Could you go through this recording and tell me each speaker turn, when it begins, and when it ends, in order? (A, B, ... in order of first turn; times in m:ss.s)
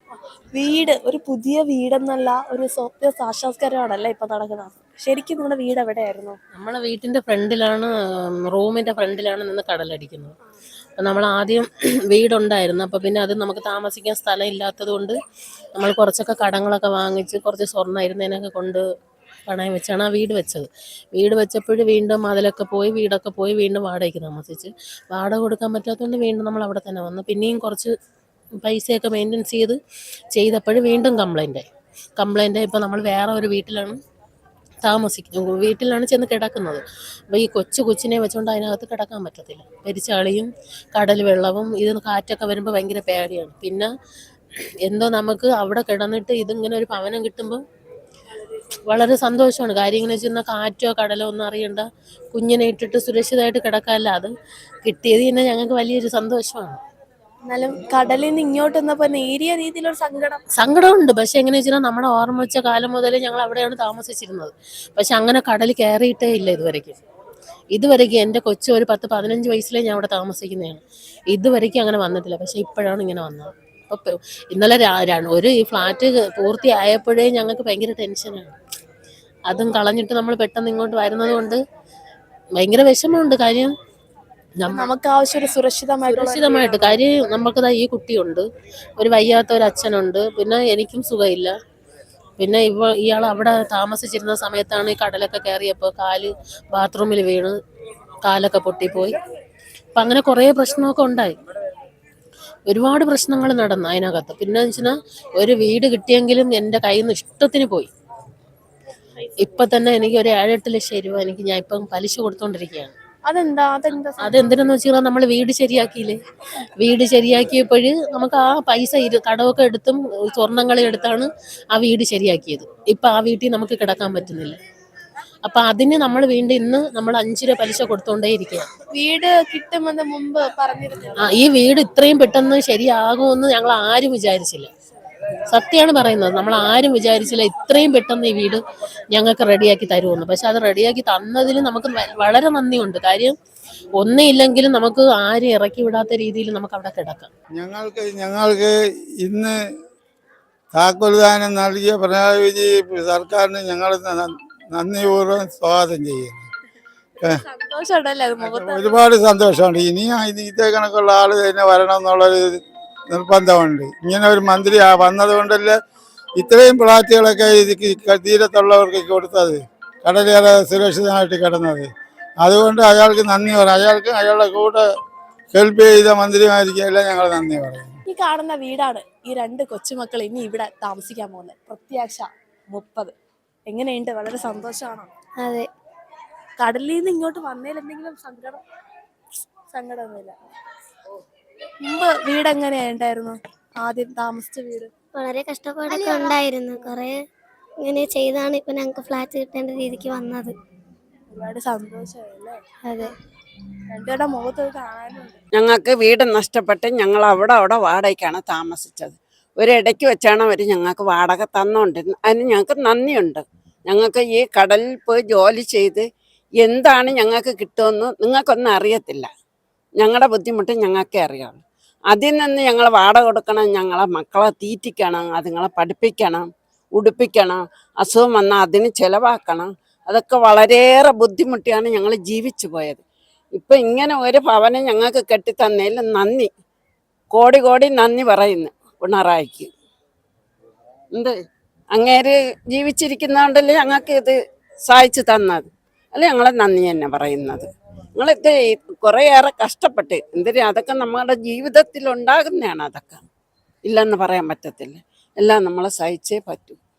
0:00.1-0:06.4 A
0:06.5-0:10.4 B
0:11.0-0:15.2 B
0:15.8-0:18.8 B
0:19.5-0:27.9 B
0:28.6-0:29.8 B
0:30.3-0:31.6 B
0:32.2-0:34.0 B
0:34.8-0:43.9 B
0:44.8-0:47.6 B
0:48.9-0:54.3 B
0:54.8-0:56.8 B
0:57.5-1:00.4 A
1:00.5-1:07.0 B
1:07.7-1:18.6 B
1:19.5-1:21.6 B
1:22.6-1:23.7 B
1:24.6-1:24.9 B
1:24.7-1:27.0 A
1:26.1-1:28.4 B
1:29.0-1:31.5 B
1:32.4-1:37.6 B
1:38.2-1:39.2 B
1:40.0-1:41.4 B
1:42.7-1:47.9 B
1:49.4-1:53.0 B
1:53.2-1:54.4 A
1:54.2-1:56.2 B
1:56.8-2:04.6 B
2:05.4-2:08.7 B
2:08.9-2:11.3 A
2:11.2-2:14.7 B
2:15.5-2:18.6 B
2:19.1-2:23.4 B
2:24.0-2:27.3 B
2:27.6-2:29.6 C
2:30.7-2:36.5 C
2:37.2-2:39.0 A
2:38.4-2:45.8 C
2:46.4-2:51.9 C
2:52.4-2:54.8 C
2:55.5-2:58.0 C
2:58.1-3:03.2 A
3:03.7-3:05.1 A
3:05.4-3:05.7 D
3:06.6-3:08.6 A
3:09.7-3:10.4 A
3:11.8-3:14.9 A
3:15.2-3:17.2 D
3:15.9-3:16.4 A
3:17.8-3:20.6 D
3:21.3-3:23.0 A
3:23.9-3:25.4 A
3:25.5-3:36.0 E
3:36.6-3:39.3 E
3:40.0-3:41.6 E
3:42.1-3:53.0 E
3:53.6-3:56.5 E
3:57.3-3:59.7 E
4:01.9-4:04.4 E
4:04.9-4:13.2 E
4:13.8-4:16.8 E